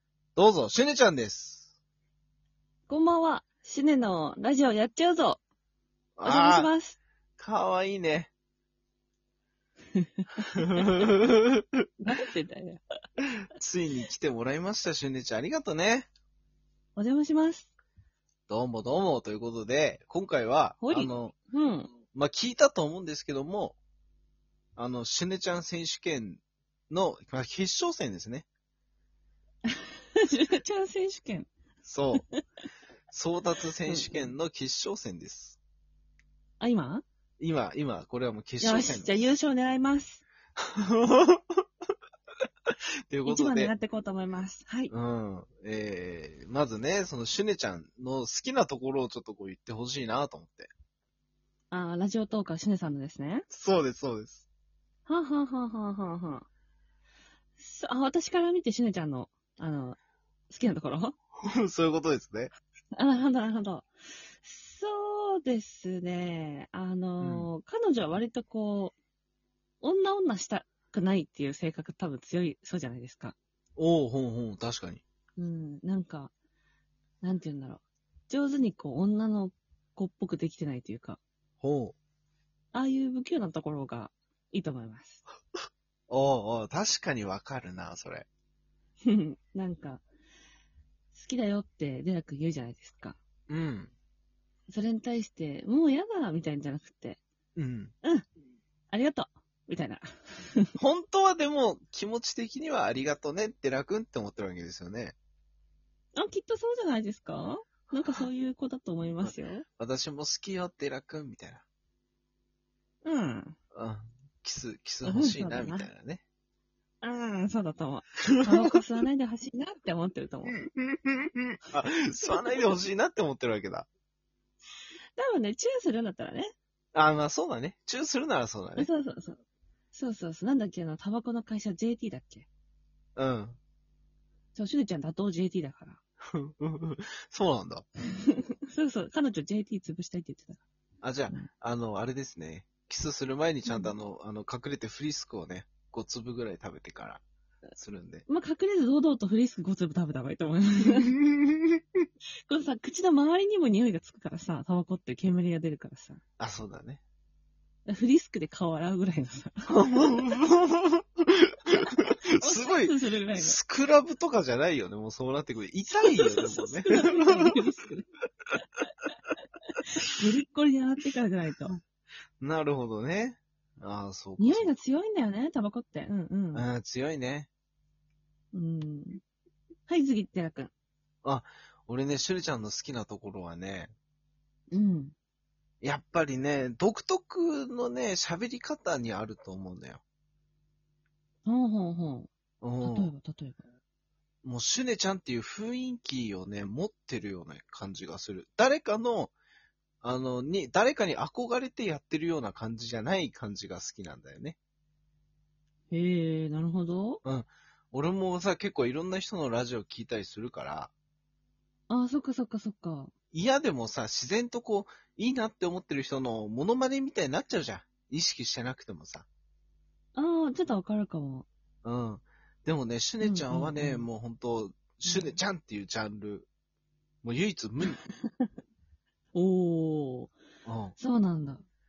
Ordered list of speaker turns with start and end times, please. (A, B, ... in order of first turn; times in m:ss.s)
0:00.4-0:01.7 A
0:02.9-0:05.4 B
0:06.2-0:06.7 A
0:06.2-0:07.0 B
0:07.4-0:08.3 A
0:09.9-0:11.0 B
0:10.6-0:11.8 A
0:12.0-0:12.8 B
0:13.5-0:16.1 A
0:17.0-0:17.7 B
0:18.5-0:21.3 A
0:20.8-0:21.9 B
0:22.1-0:23.8 A
0:24.8-0:28.4 A
0:29.7-0:31.5 B
0:31.8-0:32.2 A
0:33.1-0:35.6 A
0:33.9-0:34.3 B
0:36.6-0:37.0 B
0:37.4-0:39.3 A
0:38.6-0:40.2 B
0:40.6-0:41.4 A
0:43.1-0:43.7 A
0:43.2-0:44.9 B
0:44.9-0:50.7 A
0:51.7-0:53.5 B
0:53.5-0:54.4 A
0:55.0-0:56.5 B
0:57.6-1:00.0 B
1:00.5-1:01.1 B
1:01.4-1:02.5 A
1:02.9-1:03.9 B
1:04.4-1:08.9 B
1:07.2-1:07.5 A
1:09.8-1:13.4 B
1:13.8-1:15.0 A
1:15.4-1:16.3 B
1:17.2-1:21.2 B
1:21.6-1:22.0 A
1:22.7-1:25.2 B
1:26.1-1:28.2 A
1:29.0-1:30.0 B
1:31.1-1:33.2 B
1:33.5-1:33.9 A
1:34.7-1:37.2 B
1:37.6-1:37.9 A
1:38.9-1:40.7 B
1:40.8-1:45.1 A
1:46.2-1:49.6 B
1:49.2-1:51.6 A
1:53.0-1:53.6 B
1:53.7-1:56.2 A
1:55.0-1:55.9 B
1:57.0-2:00.6 B
2:00.5-2:03.9 A
2:05.2-2:06.5 B
2:06.9-2:08.9 A
2:08.8-2:09.4 B
2:09.9-2:12.5 B
2:13.2-2:13.6 A
2:14.5-2:16.0 B
2:16.3-2:17.8 A
2:18.7-2:20.6 B
2:21.0-2:27.2 A
2:23.7-2:23.9 B
2:27.7-2:28.2 A
2:28.3-2:31.2 B
2:31.2-2:31.7 A
2:32.5-2:36.2 B
2:36.4-2:37.0 A
2:37.9-2:39.7 B
2:39.7-2:47.5 A
2:42.4-2:43.6 B
2:46.0-2:48.0 B
2:50.0-2:51.8 B
2:52.4-2:54.7 A
2:54.4-2:56.6 B
2:56.5-2:57.5 A
2:58.5-2:59.2 B
2:59.9-3:00.7 B
3:01.2-3:03.9 A
3:04.7-3:05.1 B
3:05.8-3:10.0 A
3:11.4-3:12.3 B
3:12.6-3:13.1 A
3:12.8-3:13.6 B
3:14.4-3:19.3 A
3:20.0-3:24.6 A
3:25.9-3:27.2 B
3:27.2-3:30.9 A
3:31.9-3:33.1 B
3:33.3-3:39.3 A
3:40.1-3:41.4 B
3:41.8-3:46.5 A
3:43.2-3:44.0 B
3:45.0-3:45.4 B
3:47.2-3:48.0 A
3:49.3-3:50.3 B
3:50.6-3:51.0 A
3:51.0-3:51.6 B